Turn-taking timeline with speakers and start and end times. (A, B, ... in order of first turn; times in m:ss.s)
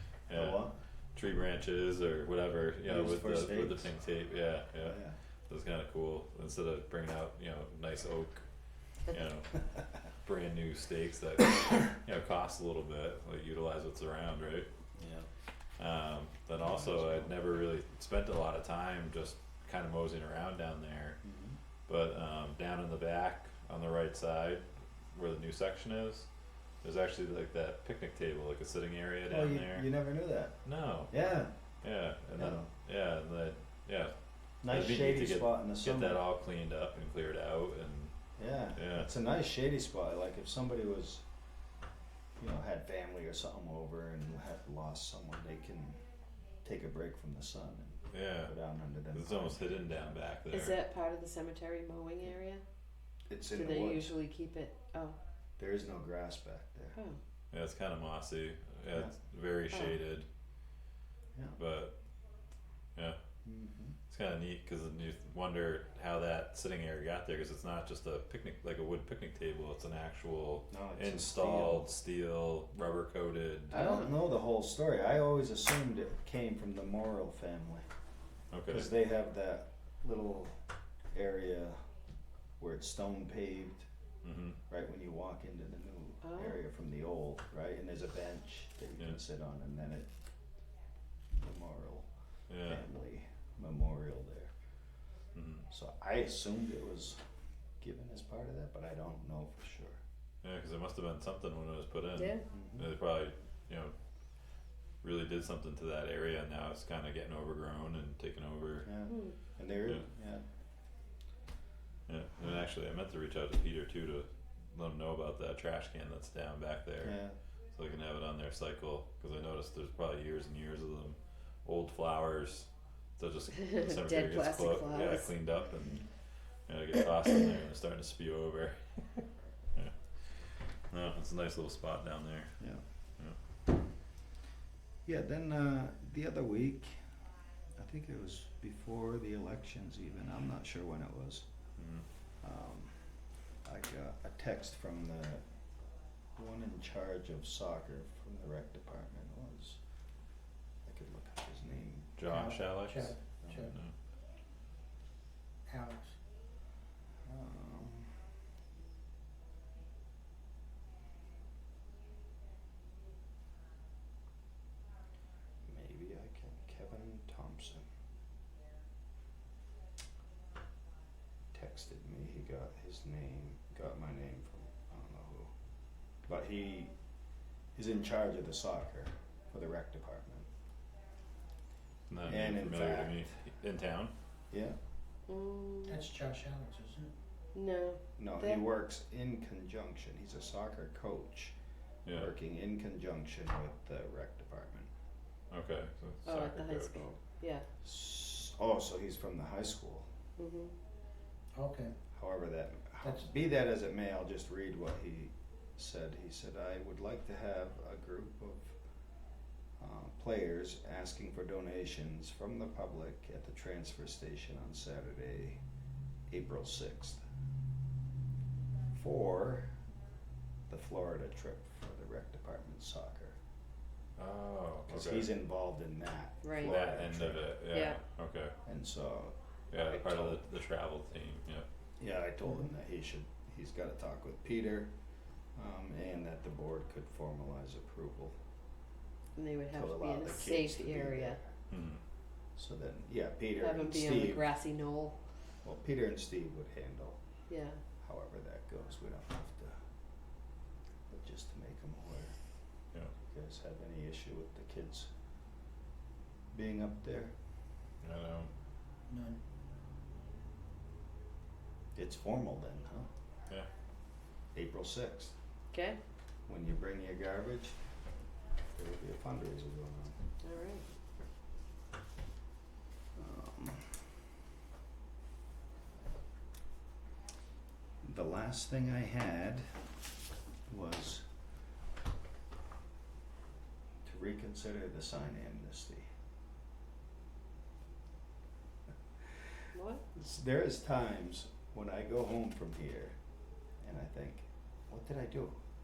0:00.3-0:08.4 A
0:00.3-0:00.8 B
0:02.9-0:03.9 B
0:04.8-0:05.2 B
0:09.1-0:09.6 A
0:10.1-0:14.7 A
0:15.0-0:15.3 B
0:15.8-0:21.2 A
0:16.6-0:17.4 B
0:21.2-0:21.6 B
0:21.9-0:26.3 A
0:26.8-0:29.9 A
0:29.3-0:31.5 B
0:30.6-0:31.2 A
0:31.8-0:34.1 A
0:32.3-0:32.7 B
0:34.6-0:36.2 B
0:34.7-0:38.1 A
0:38.4-0:41.2 B
0:38.7-0:39.1 A
0:42.4-0:46.0 B
0:46.6-0:50.2 B
0:48.1-0:48.5 A
0:49.1-0:50.8 A
0:50.5-0:52.6 C
0:53.3-0:54.1 B
0:53.5-0:55.2 C
0:55.6-0:57.0 B
0:57.5-1:00.2 A
1:01.6-1:01.9 A
1:03.4-1:04.0 B
1:04.1-1:14.0 A
1:10.7-1:11.9 B
1:13.7-1:17.8 B
1:18.5-1:18.9 A
1:18.7-1:20.6 B
1:21.1-1:21.8 B
1:22.6-1:23.8 B
1:24.2-1:24.6 A
1:24.7-1:30.1 B
1:26.2-1:26.6 C
1:31.3-1:32.0 B
1:32.5-1:32.8 A
1:32.6-1:34.5 B
1:35.3-1:35.6 A
1:35.7-1:37.2 B
1:37.8-1:40.0 B
1:40.4-1:43.9 A
1:42.2-1:42.4 C
1:42.5-1:42.9 B
1:45.0-1:48.9 A
1:48.8-1:50.4 B
1:49.1-1:49.3 C
1:52.1-1:57.2 A
1:57.0-1:57.4 B
1:57.7-2:06.1 A
2:03.6-2:05.3 C
2:06.7-2:12.6 A
2:15.0-2:17.0 B
2:17.8-2:21.4 B
2:21.8-2:22.0 A
2:22.4-2:23.0 B
2:23.6-2:25.4 B
2:26.3-2:29.8 B
2:30.8-2:32.2 B
2:32.2-2:33.9 A
2:32.2-2:33.7 D
2:33.4-2:33.7 B
2:35.6-2:36.2 D
2:37.2-2:38.2 B
2:45.6-2:47.9 B
2:51.5-2:55.5 B
2:56.2-2:56.9 B
2:57.7-3:00.5 B
3:02.1-3:04.1 A
3:02.3-3:03.1 B
3:04.5-3:04.8 B
3:05.3-3:06.0 C
3:05.8-3:07.1 D
3:07.5-3:08.6 C
3:08.2-3:11.5 B
3:12.0-3:12.3 A
3:12.1-3:14.9 B
3:15.5-3:17.1 A
3:16.2-3:17.6 C
3:17.8-3:20.1 B
3:20.4-3:20.7 C
3:21.5-3:22.0 D
3:22.1-3:28.8 B
3:23.0-3:23.3 D
3:29.8-3:35.6 B
3:36.3-3:37.2 B
3:38.9-3:39.7 B
3:40.7-3:43.4 B
3:44.2-3:45.3 A
3:44.9-3:47.6 B
3:46.4-3:46.8 C
3:46.6-3:48.5 A
3:47.7-3:48.0 C
3:48.6-3:49.3 B
3:49.7-3:51.6 A
3:50.0-3:50.4 B
3:52.0-3:54.9 B
3:55.5-3:58.3 B
3:59.4-4:01.4 C
3:59.7-4:01.6 B
4:01.7-4:02.0 A
4:02.6-4:04.5 B
4:03.6-4:05.2 C
4:05.6-4:07.2 B
4:07.5-4:07.8 C
4:08.0-4:09.7 B
4:11.1-4:12.3 B
4:13.3-4:15.1 B
4:16.5-4:17.3 B
4:18.0-4:18.5 A
4:19.1-4:19.4 D
4:21.9-4:23.1 B
4:24.5-4:25.3 B
4:25.7-4:26.0 C
4:26.5-4:27.8 B
4:28.7-4:30.2 B
4:30.4-4:30.8 C
4:33.2-4:34.0 B
4:38.0-4:39.6 B
4:40.7-4:41.2 B
4:44.0-4:46.0 B
4:49.2-4:49.6 B
4:49.7-4:50.0 C
4:50.1-4:53.2 B
4:53.8-4:55.6 B